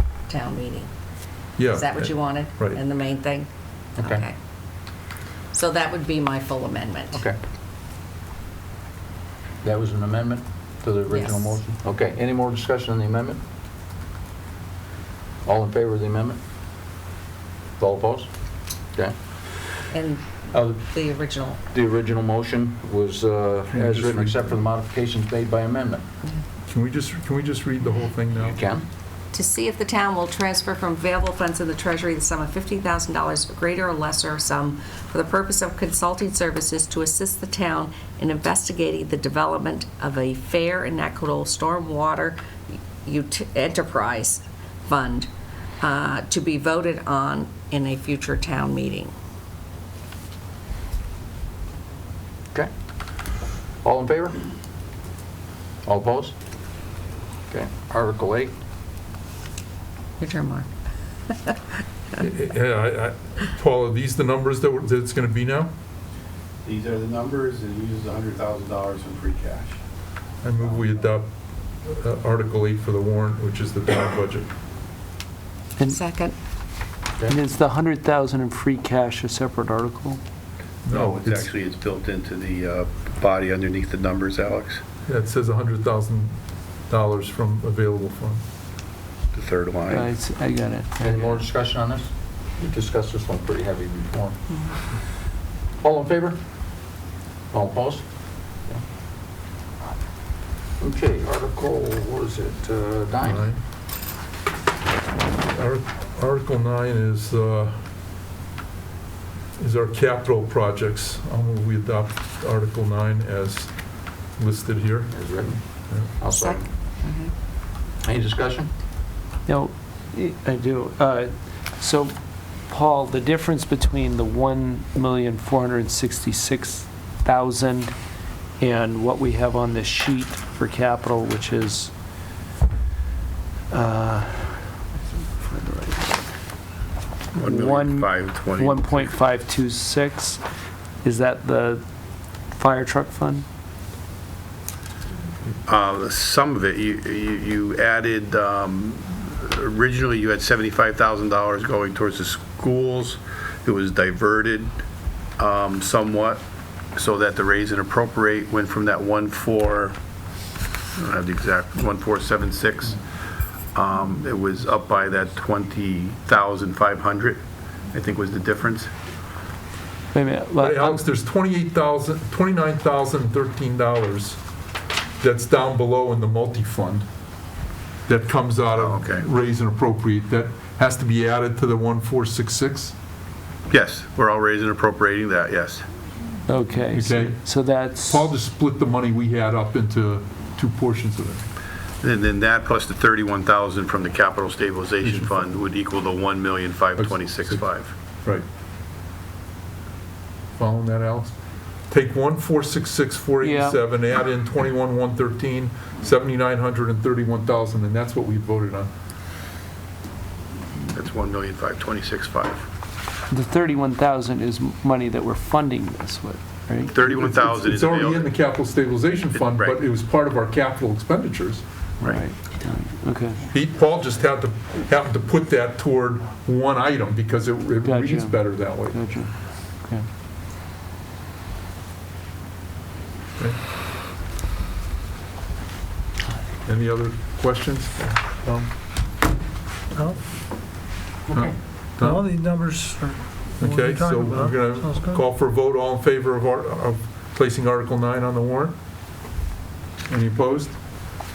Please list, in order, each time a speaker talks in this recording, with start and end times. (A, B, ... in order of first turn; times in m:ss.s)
0:00.3-0:00.9 A
0:01.6-0:02.8 B
0:01.7-0:03.5 A
0:04.0-0:04.2 C
0:04.0-0:04.3 A
0:05.5-0:07.2 A
0:09.6-0:13.4 C
0:11.1-0:11.6 A
0:15.4-0:16.4 C
0:17.8-0:18.3 C
0:19.9-0:21.6 A
0:20.5-0:20.8 C
0:21.7-0:26.0 C
0:23.7-0:24.6 B
0:26.7-0:28.6 B
0:28.4-0:28.9 C
0:29.3-0:42.4 A
0:43.0-0:45.3 A
0:45.8-0:49.1 A
0:53.8-0:54.4 C
0:55.9-0:56.3 C
0:57.5-0:58.5 C
1:00.2-1:00.7 A
1:01.3-1:01.6 A
1:02.2-1:05.7 B
1:06.6-1:09.8 D
1:10.4-1:11.3 B
1:11.8-1:14.5 B
1:15.9-1:16.3 A
1:17.3-1:20.2 E
1:20.9-1:21.4 B
1:20.9-1:24.8 D
1:25.1-1:28.4 B
1:29.3-1:30.1 D
1:29.9-1:31.4 E
1:31.0-1:34.4 C
1:35.8-1:36.4 C
1:37.5-1:38.0 C
1:40.8-1:43.5 C
1:43.2-1:43.6 B
1:45.5-1:47.8 B
1:49.6-1:56.1 B
1:55.1-1:55.6 C
1:56.2-1:56.7 C
1:56.3-1:57.3 A
1:58.0-1:58.7 C
1:59.5-2:08.0 E
2:08.6-2:11.9 E
2:13.7-2:16.2 E
2:17.3-2:20.4 E
2:17.4-2:19.2 D
2:21.0-2:21.8 E
2:22.5-2:23.4 E
2:25.7-2:34.8 D
2:35.4-2:36.4 D
2:37.0-2:40.0 D
2:41.0-2:43.0 D
2:43.7-2:47.4 D
2:47.9-2:48.9 D
2:50.1-2:51.0 E
2:50.6-2:54.4 B
2:55.2-2:57.1 B
2:58.1-3:03.0 B
2:58.7-2:59.3 D
3:03.7-3:05.9 D
3:06.5-3:08.3 E
3:06.9-3:07.4 B
3:08.0-3:11.5 B
3:12.0-3:18.0 D
3:15.0-3:15.4 B
3:17.0-3:18.5 B
3:20.6-3:28.9 B
3:23.4-3:23.8 E
3:30.9-3:32.7 D
3:33.3-3:37.0 E
3:36.9-3:38.4 D
3:37.1-3:41.6 B
3:39.3-3:39.9 D
3:42.0-3:43.4 E
3:43.5-3:49.1 B
3:47.8-3:50.1 E
3:56.6-3:58.7 B
4:01.3-4:02.3 B
4:02.0-4:05.2 F
4:03.6-4:08.8 B
4:10.1-4:11.1 B